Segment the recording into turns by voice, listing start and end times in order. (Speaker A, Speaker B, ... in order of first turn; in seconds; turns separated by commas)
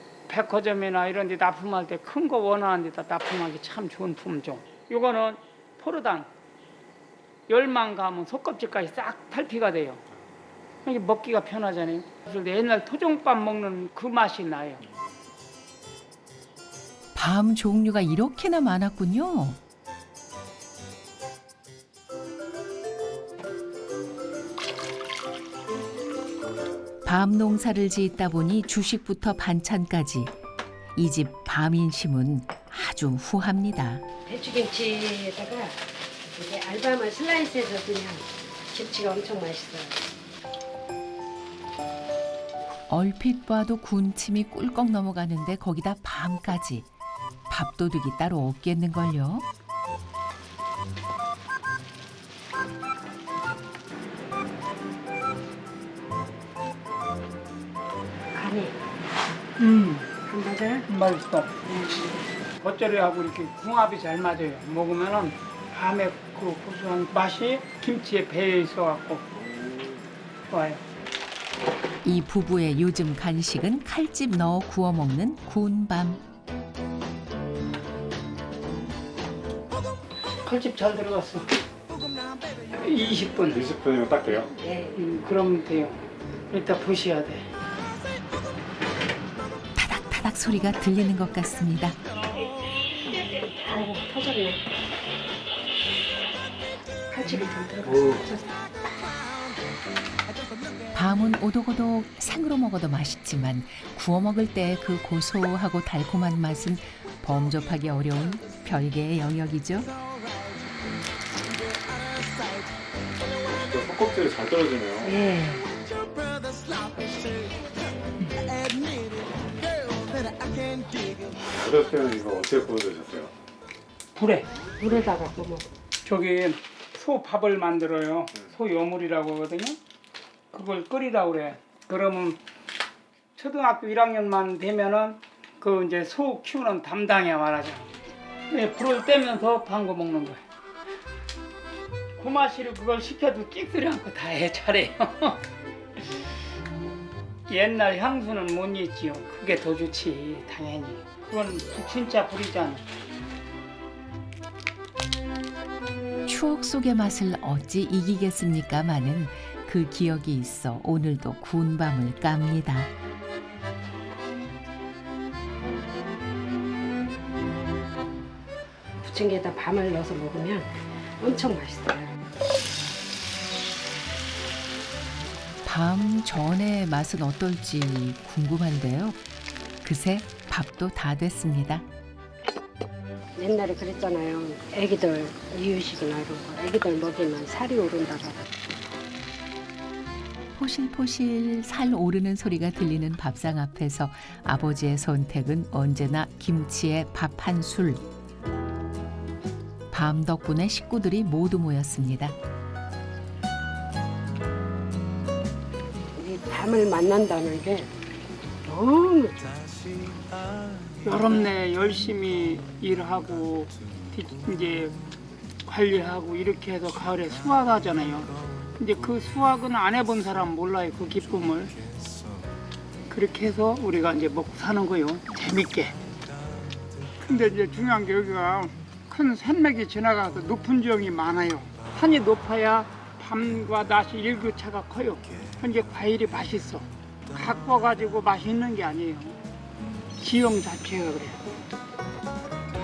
Speaker A: 0.3-6.3, Speaker A: 7.5-10.0, Speaker A: 10.9-14.8, Speaker B: 17.1-19.6, Speaker B: 27.1-30.3, Speaker B: 31.0-34.0, Speaker C: 34.2-40.1, Speaker B: 42.9-46.9, Speaker B: 47.5-49.5, Speaker C: 58.3-58.8, Speaker A: 59.6-60.1, Speaker C: 60.2-60.9, Speaker A: 60.9-61.6, Speaker C: 61.6-62.2, Speaker A: 62.6-69.2, Speaker D: 69.5-70.0, Speaker A: 70.5-70.8, Speaker B: 72.0-76.2, Speaker A: 80.5-81.5, Speaker A: 82.7-83.6, Speaker D: 83.5-84.5, Speaker C: 84.6-85.0, Speaker A: 85.0-87.5, Speaker B: 89.8-92.0, Speaker C: 92.4-94.7, Speaker C: 97.1-98.9, Speaker B: 100.9-109.9, Speaker D: 113.6-115.1, Speaker C: 115.0-115.7, Speaker D: 121.4-123.3, Speaker A: 124.2-124.5, Speaker C: 124.8-125.7, Speaker A: 126.0-129.8, Speaker A: 130.5-132.4, Speaker A: 133.4-137.9, Speaker A: 138.5-140.4, Speaker A: 142.2-145.4, Speaker A: 147.5-152.9, Speaker B: 156.3-162.9, Speaker C: 169.0-172.3, Speaker B: 175.7-179.2, Speaker B: 179.8-181.9, Speaker C: 183.4-188.6, Speaker B: 190.6-198.0, Speaker B: 199.9-202.4, Speaker C: 206.1-207.9, Speaker C: 208.6-209.5, Speaker A: 211.0-214.9, Speaker A: 215.7-221.8, Speaker A: 223.1-226.0, Speaker A: 227.2-239.4, Speaker A: 240.2-241.4